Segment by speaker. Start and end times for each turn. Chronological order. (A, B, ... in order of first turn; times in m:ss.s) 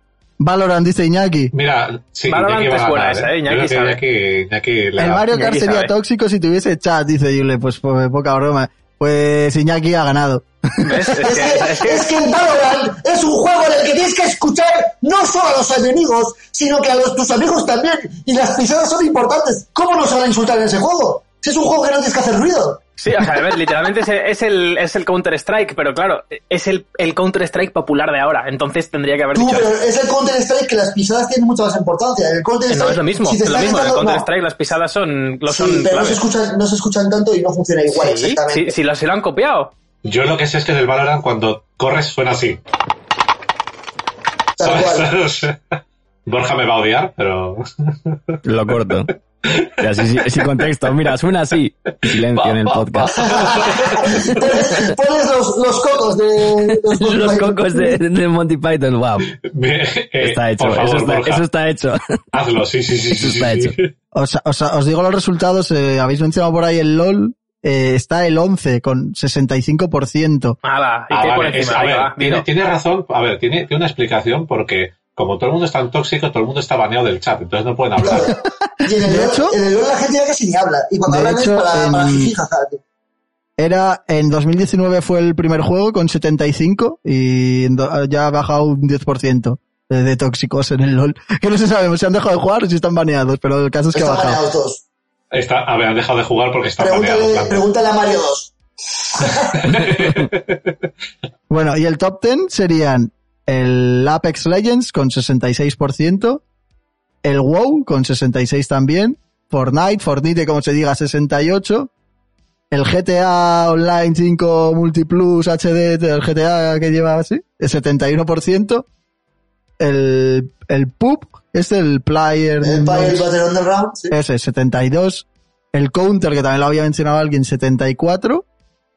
0:00.4-0:01.5 A
0:01.5-0:05.3 B
0:02.3-0:04.0 C
0:05.0-0:11.2 A
0:05.3-0:05.9 C
0:10.8-0:12.1 C
0:11.2-0:22.9 D
0:23.0-0:29.7 C
0:29.3-0:34.3 D
0:32.7-0:36.2 C
0:35.5-0:38.7 D
0:37.9-0:39.7 C
0:40.0-0:42.6 B
0:44.6-0:45.1 D
0:44.6-0:45.6 B
0:46.3-0:48.4 B
0:48.4-0:49.1 E
0:49.5-0:50.7 B
0:49.8-0:53.2 E
0:52.0-0:54.2 B
0:53.2-0:58.0 D
0:56.6-0:59.4 E
0:59.4-1:01.4 B
1:00.2-1:02.0 E
1:02.3-1:03.9 B
1:03.2-1:03.8 E
1:04.1-1:10.6 A
1:10.6-1:12.4 C
1:11.1-1:18.3 B
1:18.0-1:22.8 D
1:19.0-1:19.6 A
1:21.1-1:22.3 A
1:23.6-1:34.4 A
1:33.9-1:34.8 D
1:35.3-1:37.6 B
1:36.8-1:39.8 D
1:39.6-1:40.6 B
1:41.5-1:46.4 A
1:47.2-1:51.9 A
1:52.7-1:58.9 A
1:59.8-2:03.2 A
2:02.6-2:04.2 D
2:04.1-2:08.4 A